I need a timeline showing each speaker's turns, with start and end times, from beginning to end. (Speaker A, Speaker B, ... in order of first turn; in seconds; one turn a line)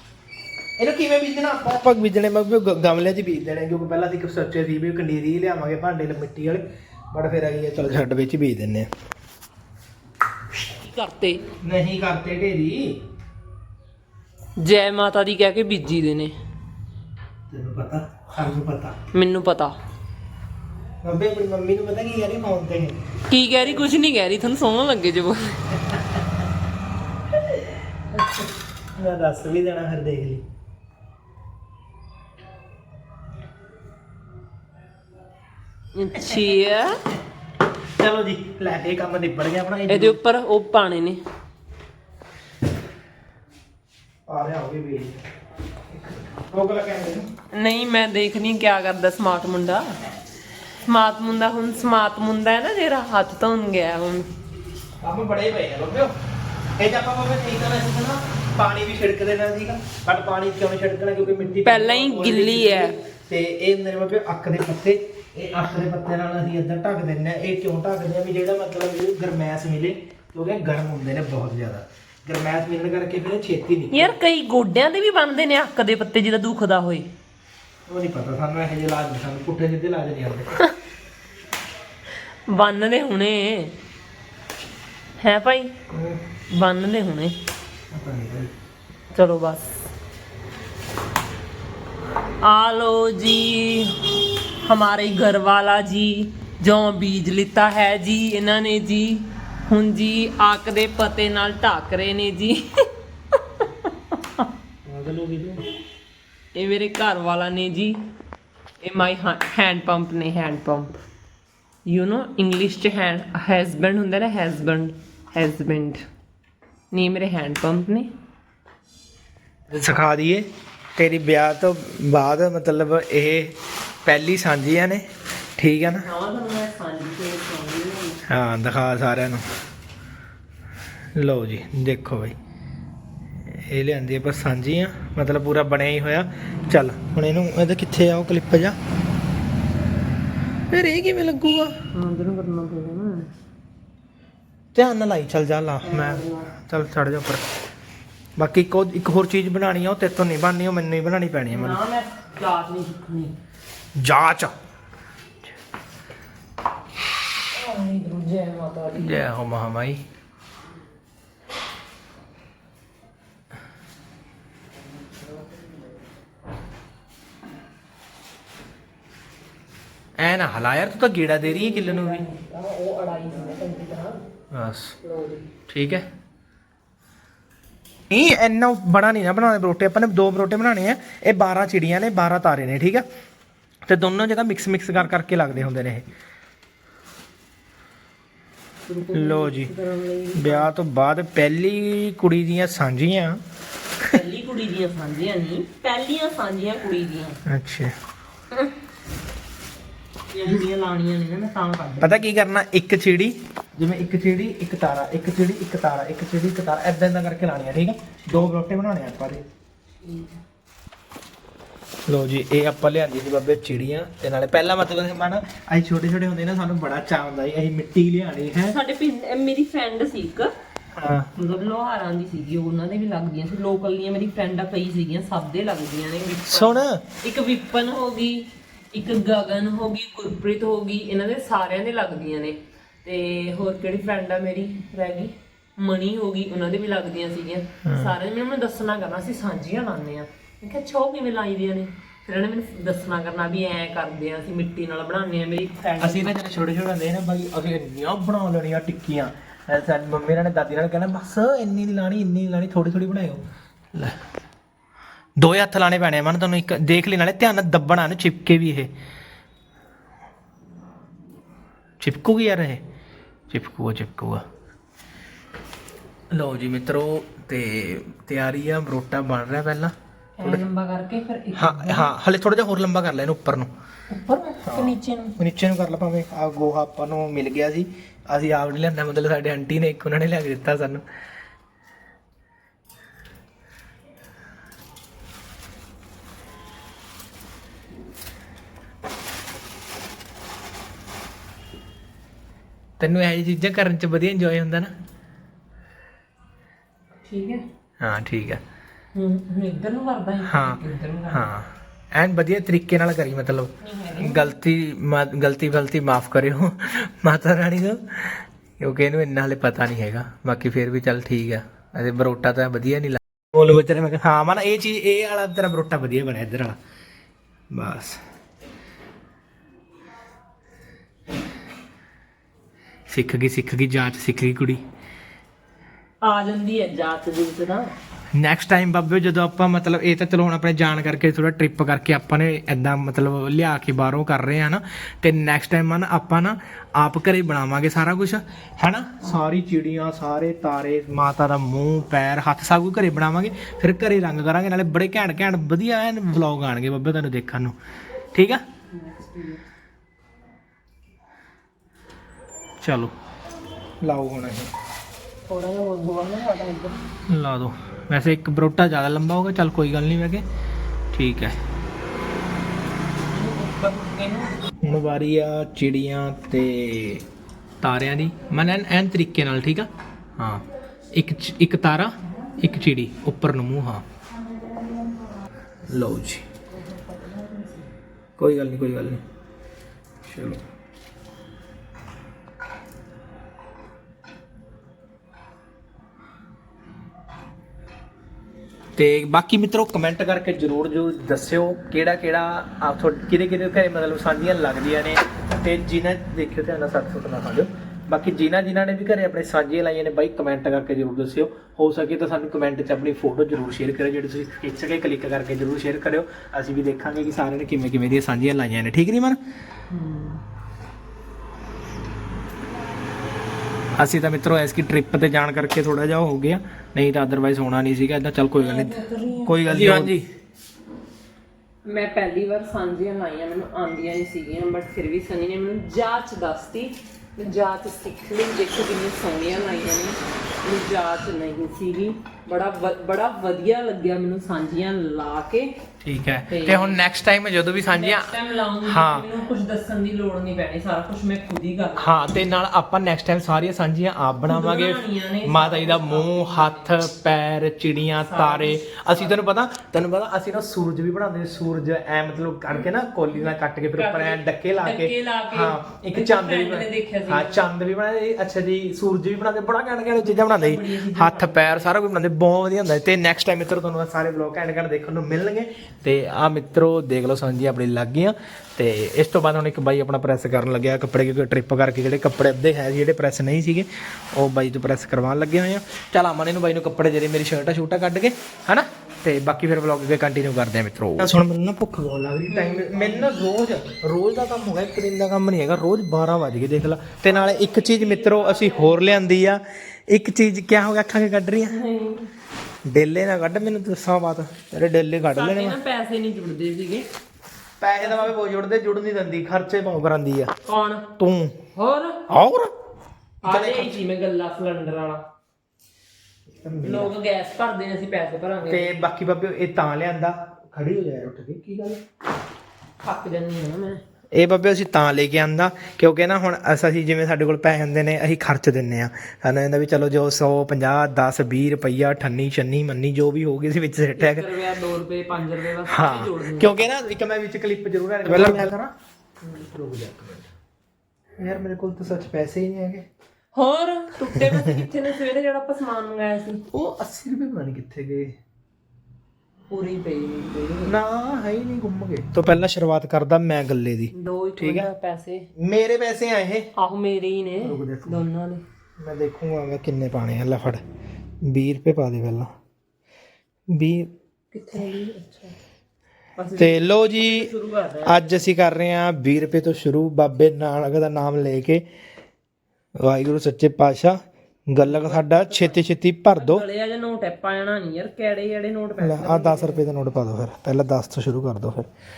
Speaker A: 0.8-8.9
Speaker B: 10.8-11.5
Speaker A: 11.6-13.0
Speaker B: 14.6-16.3
Speaker A: 17.5-19.0
Speaker B: 19.1-19.7
Speaker A: 21.0-23.0
Speaker B: 23.3-25.6
Speaker A: 27.3-27.6
Speaker A: 28.9-30.4
Speaker B: 35.9-37.0
Speaker A: 38.0-40.2
Speaker B: 39.9-41.2
Speaker A: 44.3-45.2
Speaker A: 45.9-47.3
Speaker B: 47.5-50.0
Speaker B: 50.9-54.3
Speaker A: 55.0-56.1
Speaker A: 56.8-74.1
Speaker B: 61.6-63.0
Speaker B: 73.9-77.1
Speaker A: 77.9-80.5
Speaker B: 82.5-83.8
Speaker B: 85.2-85.8
Speaker A: 85.9-86.2
Speaker B: 86.5-87.4
Speaker A: 87.9-88.5
Speaker B: 89.1-89.8
Speaker B: 92.4-104.5
Speaker A: 104.8-105.6
Speaker B: 106.5-108.0
Speaker B: 108.8-111.0
Speaker B: 111.8-116.0
Speaker B: 116.9-118.1
Speaker A: 119.7-126.1
Speaker B: 126.0-128.2
Speaker A: 128.3-129.5
Speaker A: 131.1-132.3
Speaker A: 133.4-138.8
Speaker A: 140.7-141.8
Speaker B: 141.9-143.3
Speaker A: 144.7-147.4
Speaker B: 145.8-146.5
Speaker A: 148.4-151.8
Speaker B: 151.5-153.3
Speaker A: 153.9-154.5
Speaker B: 157.5-159.2
Speaker A: 158.9-160.0
Speaker A: 170.2-172.2
Speaker B: 171.4-174.2
Speaker A: 174.5-174.9
Speaker B: 175.0-175.5
Speaker A: 175.7-176.0
Speaker A: 178.1-183.1
Speaker A: 183.8-186.1
Speaker B: 188.8-190.7
Speaker A: 189.1-189.7
Speaker A: 190.3-193.4
Speaker B: 194.0-197.4
Speaker A: 197.4-197.9
Speaker B: 200.3-202.2
Speaker A: 202.0-209.4
Speaker B: 210.0-210.4
Speaker A: 212.1-218.8
Speaker B: 218.7-220.5
Speaker A: 220.9-221.3
Speaker B: 221.3-246.3
Speaker A: 226.5-227.0
Speaker A: 237.8-238.2
Speaker A: 246.0-254.2
Speaker A: 255.4-258.9
Speaker A: 262.0-262.8
Speaker A: 263.5-264.4
Speaker A: 266.3-270.6
Speaker B: 270.4-272.1
Speaker A: 271.5-273.7
Speaker B: 274.1-275.4
Speaker A: 274.6-281.0
Speaker A: 293.0-294.9
Speaker B: 297.2-297.6
Speaker A: 298.0-298.6
Speaker B: 299.1-301.5
Speaker A: 300.4-316.8
Speaker B: 303.8-304.4
Speaker A: 317.7-318.2
Speaker A: 323.1-324.8
Speaker B: 326.2-327.9
Speaker A: 328.3-347.8
Speaker A: 348.3-348.6
Speaker B: 348.9-349.6
Speaker A: 352.8-353.1
Speaker A: 354.0-354.7
Speaker B: 355.5-357.0
Speaker A: 357.3-360.4
Speaker A: 361.1-361.6
Speaker B: 363.3-364.5
Speaker A: 364.8-367.2
Speaker A: 367.8-374.0
Speaker A: 375.9-376.4
Speaker B: 376.7-377.9
Speaker A: 378.4-379.2
Speaker A: 380.2-380.6
Speaker A: 388.9-409.4
Speaker B: 409.9-410.4
Speaker A: 413.9-420.3
Speaker B: 418.5-420.1
Speaker B: 421.8-435.7
Speaker A: 436.0-439.3
Speaker B: 436.5-437.0
Speaker B: 437.9-442.2
Speaker A: 442.0-491.8
Speaker B: 444.5-446.9
Speaker B: 448.2-449.4
Speaker B: 453.9-457.6
Speaker B: 460.2-461.9
Speaker B: 482.5-483.3
Speaker B: 487.2-489.3
Speaker B: 491.7-492.3
Speaker A: 492.8-495.8
Speaker B: 495.3-497.1
Speaker A: 497.8-500.5
Speaker B: 498.0-498.3
Speaker B: 500.6-501.1
Speaker A: 501.2-501.6
Speaker B: 501.7-502.2
Speaker A: 502.3-502.7
Speaker B: 503.4-505.3
Speaker A: 503.4-504.0
Speaker A: 506.5-507.1
Speaker B: 506.8-508.9
Speaker A: 508.6-512.0
Speaker B: 513.0-514.0
Speaker A: 514.3-524.5
Speaker B: 524.2-526.7
Speaker A: 525.8-528.9
Speaker B: 528.3-528.7
Speaker B: 529.4-529.7
Speaker A: 529.7-530.5
Speaker A: 531.4-533.1
Speaker B: 533.5-536.6
Speaker A: 534.3-534.9
Speaker A: 536.7-538.4
Speaker B: 539.7-540.9
Speaker A: 540.9-544.9
Speaker B: 544.1-545.5
Speaker A: 545.5-546.7
Speaker B: 546.8-548.6
Speaker A: 547.6-548.2
Speaker A: 549.0-550.8
Speaker A: 551.4-552.5
Speaker A: 553.7-554.1
Speaker B: 554.5-555.5
Speaker B: 556.4-558.4
Speaker A: 556.6-557.5
Speaker A: 558.0-561.8
Speaker A: 563.0-566.6
Speaker B: 564.8-565.8
Speaker B: 566.3-569.8
Speaker A: 569.0-571.9